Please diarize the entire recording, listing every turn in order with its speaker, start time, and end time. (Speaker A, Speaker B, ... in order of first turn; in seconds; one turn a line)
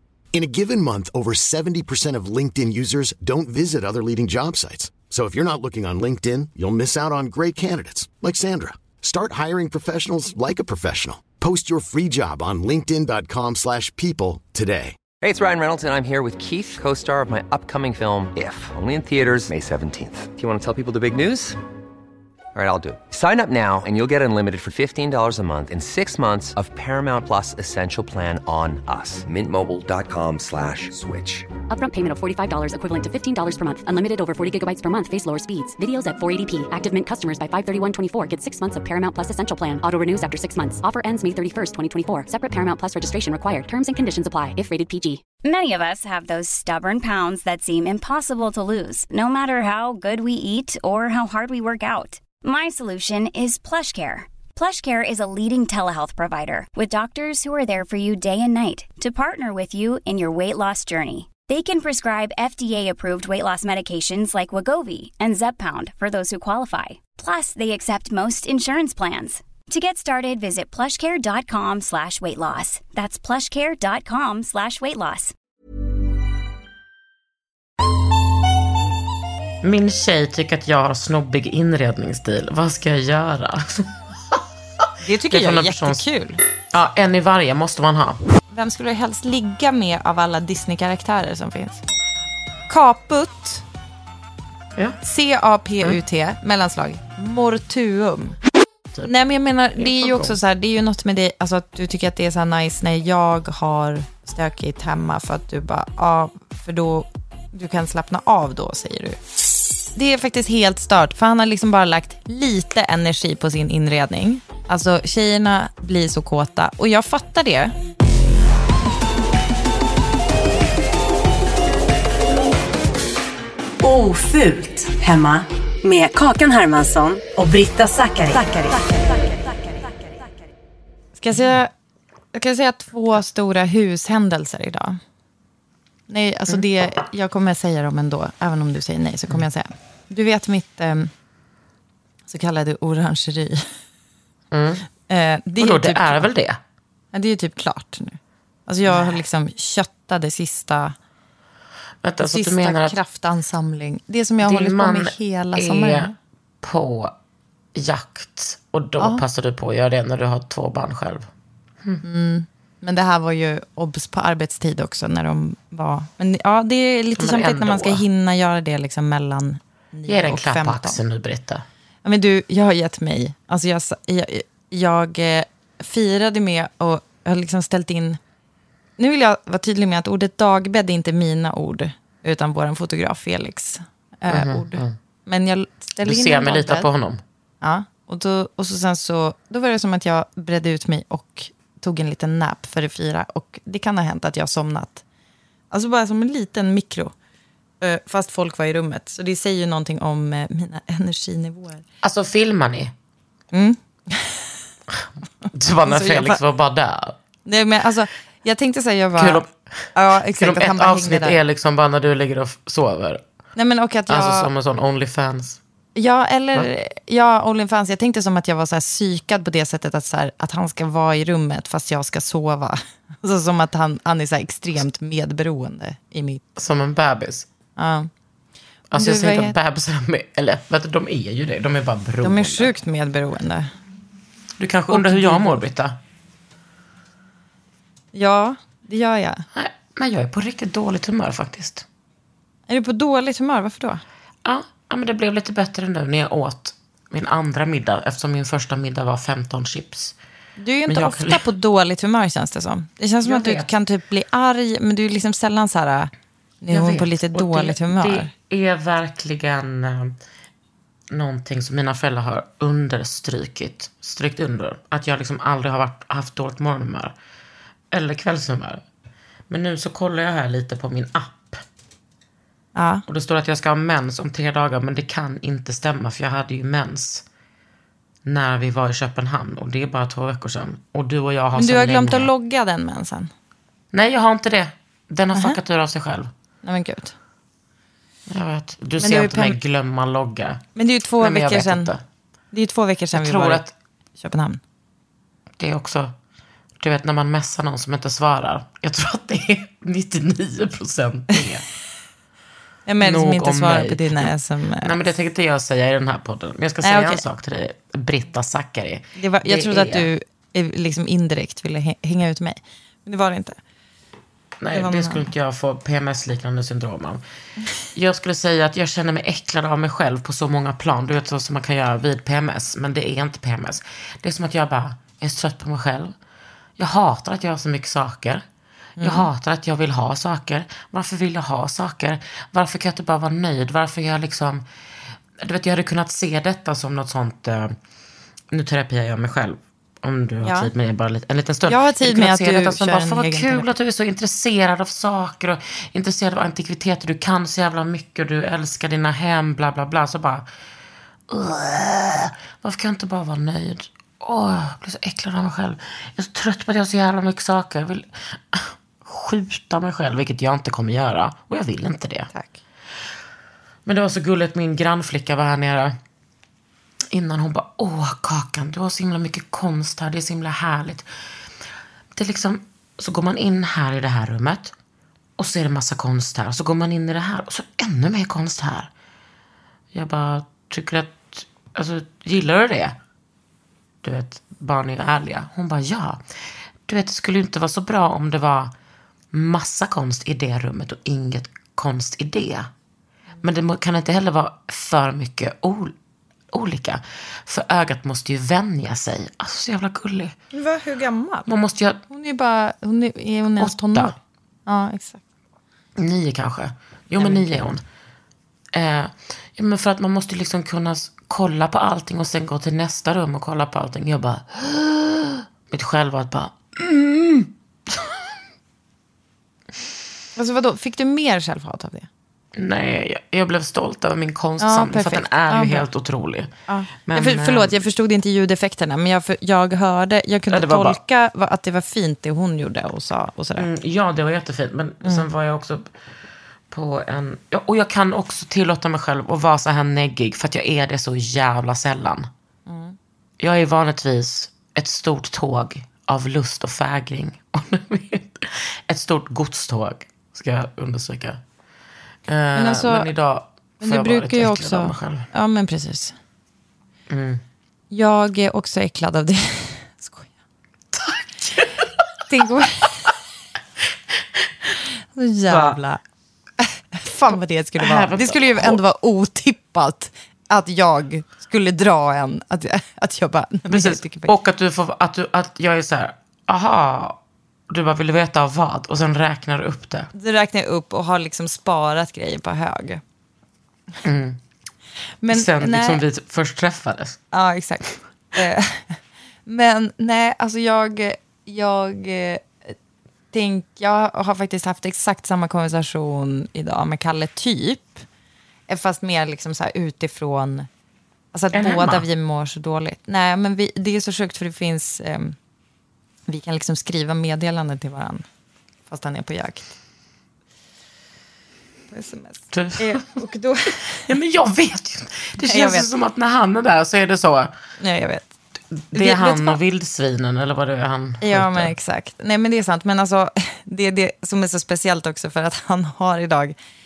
Speaker A: 0.3-14.9
Speaker B: 15.2-21.6
Speaker B: 22.6-31.5
Speaker C: 31.7-45.2
Speaker D: 45.4-75.3
Speaker E: 79.6-84.4
Speaker F: 85.0-86.4
Speaker E: 85.3-86.0
Speaker E: 86.7-88.2
Speaker F: 88.5-91.8
Speaker F: 92.7-93.6
Speaker F: 95.0-98.4
Speaker F: 99.0-109.2
Speaker E: 99.8-100.4
Speaker F: 109.9-117.7
Speaker G: 123.8-128.9
Speaker F: 131.2-131.7
Speaker F: 132.3-135.0
Speaker F: 136.1-141.1
Speaker F: 142.3-143.6
Speaker E: 144.5-144.9
Speaker F: 145.1-146.3
Speaker E: 145.6-146.6
Speaker F: 147.1-150.9
Speaker E: 148.9-149.1
Speaker E: 152.0-153.0
Speaker F: 152.2-156.1
Speaker E: 154.4-156.1
Speaker E: 156.6-157.1
Speaker E: 157.7-161.3
Speaker F: 162.0-171.0
Speaker E: 167.2-168.0
Speaker E: 170.1-171.6
Speaker F: 172.0-178.2
Speaker F: 179.0-186.9
Speaker E: 184.3-184.9
Speaker E: 186.0-187.2
Speaker F: 187.6-195.0
Speaker F: 195.7-197.1
Speaker F: 197.8-201.8
Speaker E: 202.0-202.9
Speaker F: 203.5-204.5
Speaker E: 204.9-207.2
Speaker F: 205.9-206.4
Speaker F: 207.4-209.4
Speaker E: 209.1-213.2
Speaker F: 209.9-211.4
Speaker F: 213.6-214.5
Speaker E: 214.1-215.6
Speaker F: 215.9-226.4
Speaker E: 226.6-227.5
Speaker F: 227.8-228.1
Speaker E: 228.9-232.7
Speaker F: 228.9-229.6
Speaker F: 232.2-233.7
Speaker E: 234.6-235.9
Speaker F: 234.9-235.6
Speaker F: 238.1-239.4
Speaker E: 239.5-241.9
Speaker F: 242.7-244.0
Speaker E: 244.4-250.2
Speaker F: 250.6-256.1
Speaker E: 250.9-251.4
Speaker E: 253.2-253.7
Speaker F: 256.6-258.3
Speaker E: 256.7-260.2
Speaker E: 261.1-267.1
Speaker E: 267.9-268.8
Speaker E: 269.5-271.6
Speaker F: 272.8-273.0
Speaker E: 273.1-277.2
Speaker E: 278.2-282.3
Speaker F: 281.5-283.3
Speaker E: 283.9-286.3
Speaker F: 286.6-287.1
Speaker E: 288.3-290.7
Speaker F: 289.0-289.6
Speaker F: 290.8-291.9
Speaker E: 291.2-292.0
Speaker F: 292.5-293.6
Speaker E: 293.1-293.7
Speaker F: 294.2-294.6
Speaker E: 295.6-296.1
Speaker E: 296.8-301.6
Speaker F: 302.9-304.9
Speaker E: 303.0-310.1
Speaker F: 306.8-307.2
Speaker F: 309.2-313.6
Speaker E: 314.6-317.2
Speaker F: 314.7-315.3
Speaker E: 317.9-326.2
Speaker E: 326.8-328.4
Speaker F: 329.0-329.3
Speaker E: 329.0-334.7
Speaker E: 335.4-337.8
Speaker E: 338.5-350.5
Speaker F: 340.4-340.7
Speaker F: 341.7-343.7
Speaker E: 351.3-362.3
Speaker F: 362.3-362.6
Speaker E: 363.9-365.9
Speaker E: 367.1-371.1
Speaker E: 372.2-374.8
Speaker E: 375.4-378.9
Speaker E: 379.9-383.0
Speaker E: 384.0-386.2
Speaker E: 386.9-388.7
Speaker E: 389.3-392.7
Speaker E: 393.4-395.9
Speaker E: 396.5-400.4
Speaker F: 400.5-401.5
Speaker E: 401.5-402.0
Speaker F: 402.1-404.1
Speaker E: 403.6-404.1
Speaker F: 404.7-405.2
Speaker E: 406.0-407.8
Speaker F: 407.1-407.7
Speaker E: 408.7-418.2
Speaker F: 420.4-422.1
Speaker E: 422.6-426.5
Speaker F: 424.6-425.9
Speaker F: 426.7-433.7
Speaker E: 427.1-427.8
Speaker E: 430.5-431.0
Speaker E: 433.6-435.9
Speaker E: 436.7-442.3
Speaker F: 442.7-443.0
Speaker E: 443.4-451.4
Speaker E: 452.3-455.3
Speaker F: 452.6-453.1
Speaker F: 453.8-456.1
Speaker E: 457.1-457.4
Speaker F: 457.9-460.3
Speaker E: 460.9-461.9
Speaker F: 462.3-463.1
Speaker F: 465.1-466.0
Speaker E: 465.5-465.8
Speaker F: 466.6-474.3
Speaker E: 467.3-468.8
Speaker E: 473.7-480.1
Speaker F: 480.1-483.0
Speaker E: 484.0-484.4
Speaker F: 485.2-486.0
Speaker E: 485.3-487.2
Speaker F: 487.3-492.8
Speaker F: 493.3-498.0
Speaker F: 498.7-500.7
Speaker F: 501.3-505.4
Speaker E: 501.5-502.0
Speaker F: 506.3-508.2
Speaker F: 508.9-509.8
Speaker F: 511.9-514.1
Speaker E: 512.5-513.2
Speaker E: 514.1-517.5
Speaker F: 515.4-515.9
Speaker F: 517.8-518.3
Speaker E: 518.8-521.7
Speaker F: 518.9-519.6
Speaker F: 521.2-526.5